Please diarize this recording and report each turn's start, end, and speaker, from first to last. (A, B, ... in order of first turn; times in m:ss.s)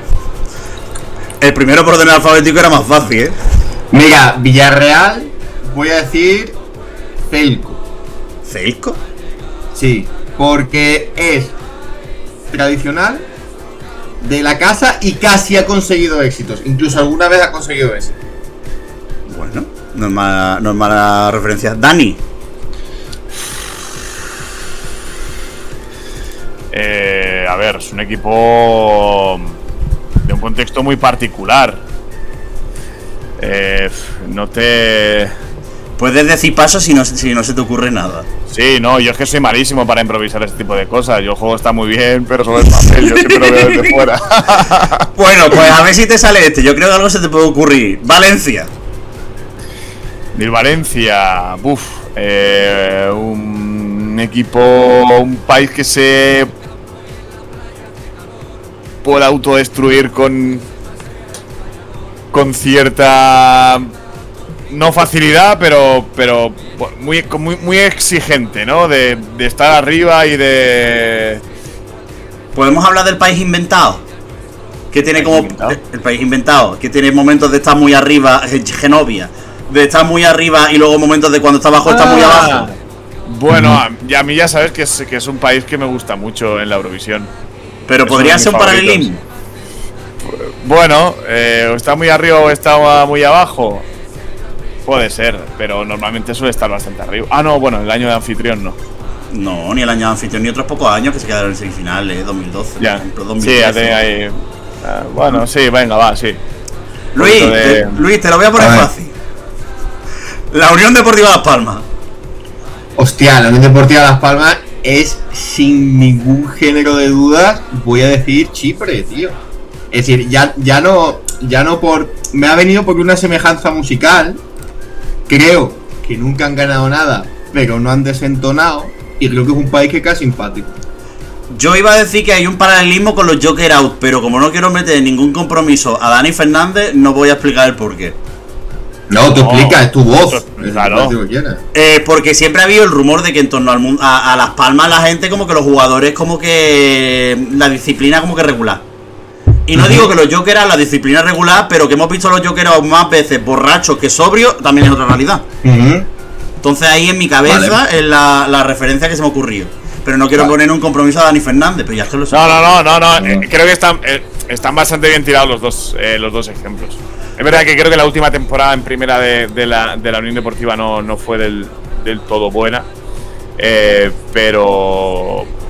0:01.4-0:03.4 A
0:03.9-0:06.6 B
0:07.3-0:07.8 B
0:08.5-0:09.0 A
0:09.8-0:11.6 B
0:12.5-0:13.3 B
0:14.2-0:18.2 B
0:19.3-0:22.2 A
0:26.7-0:29.6 C
0:30.2-0:31.8 C
0:33.4-0:35.3 C
0:36.0-0:38.3 A
0:38.5-0:45.1 C
0:43.0-0:44.0 A
0:45.2-0:48.7 A
0:50.4-0:56.5 C
0:59.0-1:00.7 C
1:02.3-1:03.9 C
1:04.7-1:11.4 C
1:12.6-1:14.0 A
1:14.9-1:22.7 A
1:15.2-1:15.8 C
1:21.8-1:22.8 C
1:23.3-1:27.3 C
1:23.5-1:23.8 B
1:27.9-1:29.2 A
1:28.1-1:29.2 C
1:30.2-1:33.9 C
1:34.9-1:38.8 C
1:39.3-1:44.0 A
1:42.8-1:46.4 C
1:47.2-1:49.2 A
1:47.2-1:48.0 C
1:48.6-1:48.9 B
1:50.5-1:51.9 A
1:53.0-1:59.4 B
1:59.9-2:04.4 B
2:05.3-2:10.8 B
2:11.5-2:18.2 A
2:19.1-2:21.6 B
2:19.4-2:21.2 C
2:21.7-2:28.8 A
2:29.7-2:35.4 A
2:29.7-2:30.1 B
2:35.6-2:36.1 B
2:36.6-2:42.8 A
2:37.5-2:37.8 B
2:42.3-2:52.9 C
2:43.2-2:43.5 B
2:53.6-2:55.5 C